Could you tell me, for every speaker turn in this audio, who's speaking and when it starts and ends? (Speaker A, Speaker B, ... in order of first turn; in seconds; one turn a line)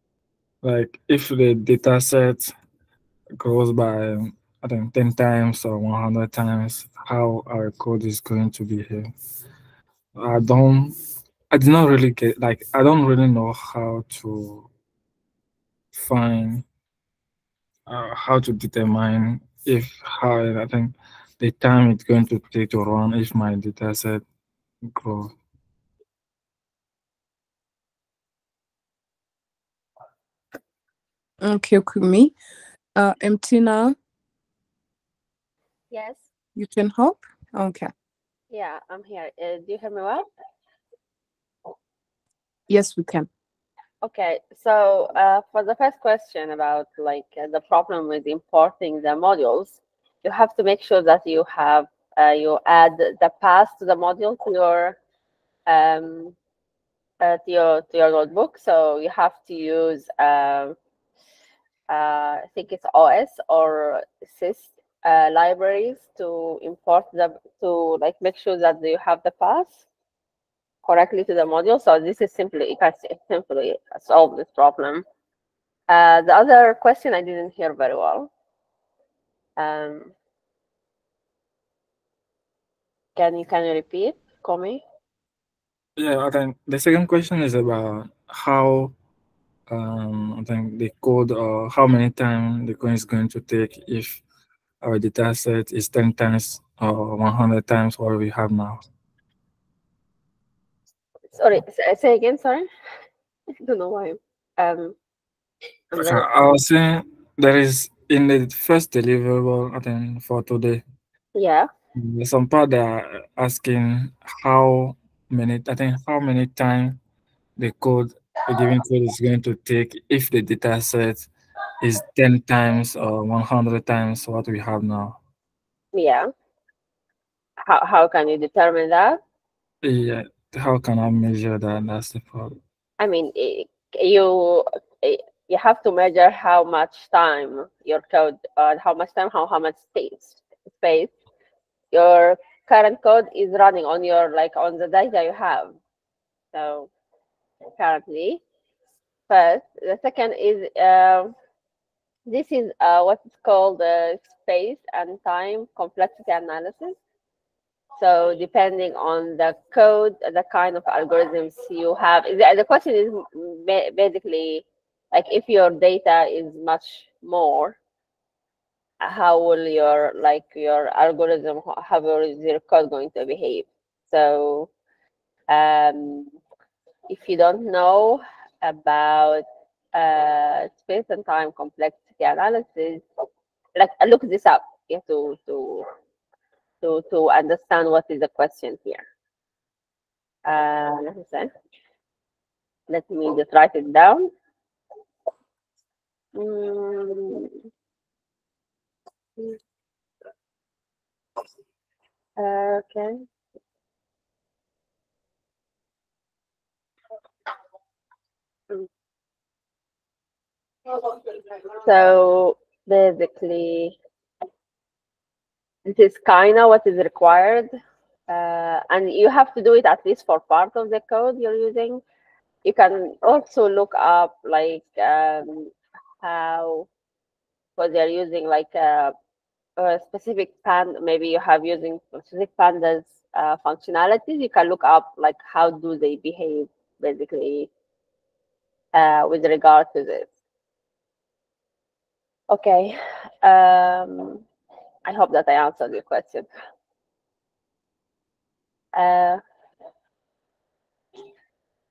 Speaker A: 0.6-2.5
Speaker A: 3.4-9.1
Speaker A: 10.1-11.0
Speaker A: 11.5-14.7
Speaker A: 15.9-16.6
Speaker A: 17.9-24.2
Speaker A: 24.9-25.3
Speaker B: 31.4-32.3
Speaker B: 32.9-34.0
Speaker C: 35.9-36.2
Speaker B: 36.5-37.9
Speaker C: 38.5-40.2
Speaker B: 42.7-43.3
Speaker C: 44.0-55.0
Speaker C: 55.7-56.3
Speaker C: 57.2-60.7
Speaker C: 61.9-69.8
Speaker C: 70.8-75.0
Speaker C: 75.9-78.3
Speaker C: 79.6-80.1
Speaker C: 83.2-84.8
Speaker A: 86.0-88.9
Speaker A: 89.7-94.2
Speaker A: 94.8-98.8
Speaker C: 101.3-102.7
Speaker C: 103.6-105.0
Speaker C: 105.9-106.3
Speaker A: 106.0-110.8
Speaker C: 111.3-111.7
Speaker A: 112.0-117.0
Speaker A: 117.6-121.3
Speaker A: 121.8-125.2
Speaker C: 125.9-126.3
Speaker C: 127.6-129.2
Speaker A: 129.8-132.6
Speaker C: 133.0-141.1
Speaker C: 141.9-145.8
Speaker C: 146.5-146.9
Speaker C: 147.8-148.4
Speaker C: 149.3-151.3
Speaker C: 152.3-157.0
Speaker C: 158.0-167.8
Speaker C: 169.0-174.7
Speaker C: 175.5-176.3
Speaker C: 177.1-183.0
Speaker C: 183.8-185.8
Speaker C: 186.8-189.0
Speaker C: 190.4-191.5
Speaker C: 192.9-194.3
Speaker C: 196.3-197.5
Speaker C: 202.4-203.2
Speaker C: 211.7-213.9
Speaker C: 215.9-217.7
Speaker C: 218.3-222.0
Speaker C: 222.6-226.9
Speaker C: 227.8-229.1
Speaker C: 229.8-237.7
Speaker C: 238.9-240.3
Speaker C: 242.5-244.4
Speaker C: 245.1-246.5
Speaker C: 248.9-249.4